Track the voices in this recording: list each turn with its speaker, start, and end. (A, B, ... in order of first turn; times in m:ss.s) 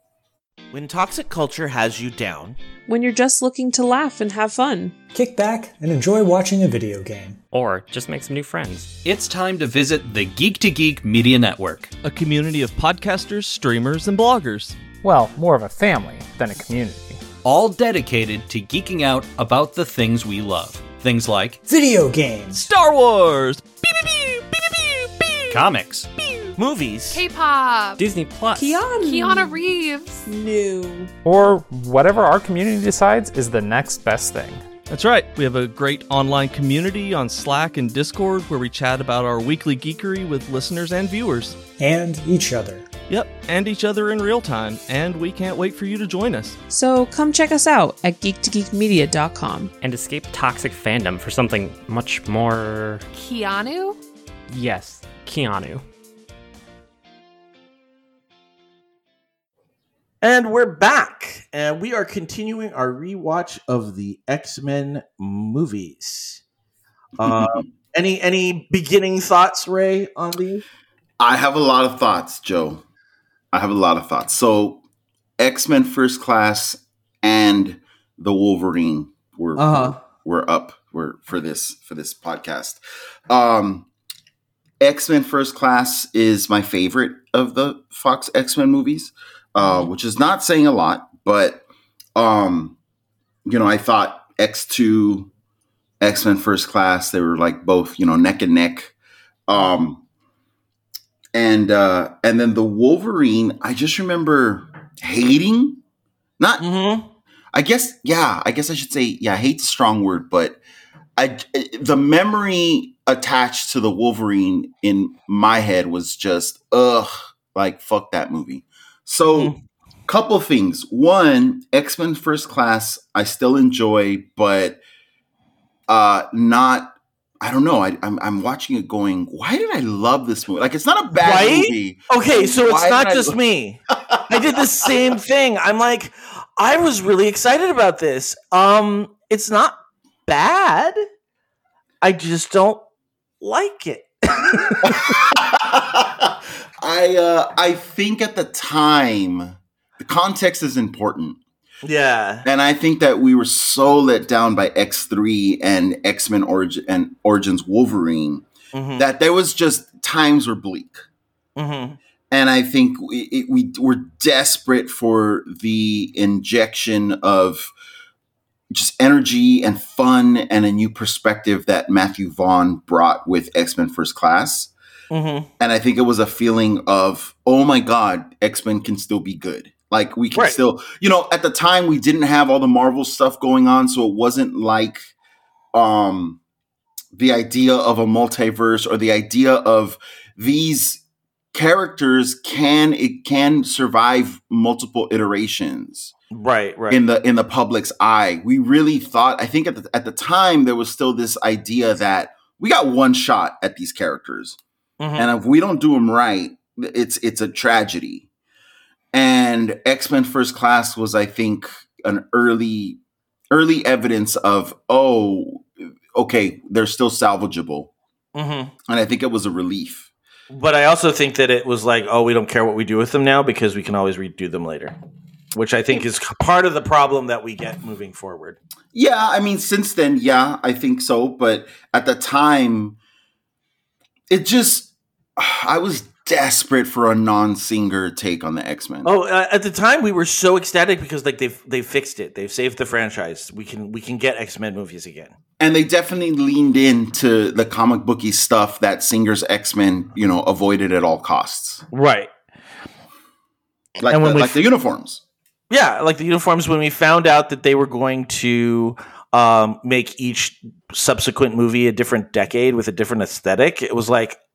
0:00.7-0:02.6 A
0:02.9-0:04.9 B
0:05.1-0:07.4 C
0:07.5-0:08.9 D
0:09.0-0:11.9 E
0:12.0-0:14.8 F
0:15.0-0:17.2 G
0:17.4-0:21.6 E
0:21.7-0:22.7 C
0:22.5-0:26.5 F
0:25.5-0:26.1 E
0:26.6-0:27.2 A
0:27.1-0:28.0 B
0:28.0-0:28.9 D
0:28.5-0:31.1 B
0:31.2-0:34.6 G
0:34.9-0:41.6 F
0:41.8-0:42.8 C
0:43.1-0:46.6 F
0:46.7-0:49.7 B
0:49.8-0:53.0 D
0:53.1-0:54.0 B
0:54.5-0:55.8 D
1:00.2-1:06.4 A
1:07.2-1:10.6 A
1:07.2-1:07.7 H
1:11.2-1:12.8 H
1:13.5-1:14.8 H
1:15.4-1:23.9 H
1:19.6-1:20.0 A
1:24.8-1:32.8 H
1:29.6-1:29.9 A
1:33.4-1:35.3 H
1:36.0-1:38.9 H
1:39.5-1:40.0 H
1:41.3-1:45.8 H
1:46.4-1:46.7 H
1:46.6-1:47.1 A
1:47.5-1:50.6 H
1:51.2-1:59.5 H
1:59.2-1:59.6 A
2:00.1-2:04.8 H
2:05.9-2:13.4 H
2:11.1-2:21.0 A
2:13.9-2:15.0 H
2:22.0-2:22.8 A
2:23.4-2:25.2 A
2:24.8-2:31.4 H
2:31.8-2:32.4 A
2:32.4-2:38.4 H
2:38.7-2:39.0 A
2:39.0-2:41.0 H
2:41.6-2:42.0 A
2:42.3-2:47.7 H
2:48.7-2:54.7 H
2:55.1-2:55.5 A
2:55.6-3:05.1 H
3:00.3-3:00.6 A
3:05.7-3:06.4 H
3:07.1-3:11.0 H
3:11.5-3:16.1 H
3:16.3-3:17.0 A
3:16.9-3:24.6 H
3:25.0-3:25.3 A
3:25.2-3:28.3 H
3:29.1-3:33.0 H
3:33.5-3:37.9 H
3:38.3-3:38.7 A
3:38.8-3:40.1 H
3:40.5-3:44.9 A
3:45.5-3:48.6 A
3:48.9-3:53.0 H
3:54.3-3:59.1 H
3:59.0-4:05.3 A
4:05.6-4:11.8 H
4:11.9-4:12.3 A
4:14.0-4:15.2 H
4:14.1-4:14.6 A
4:15.7-4:24.4 A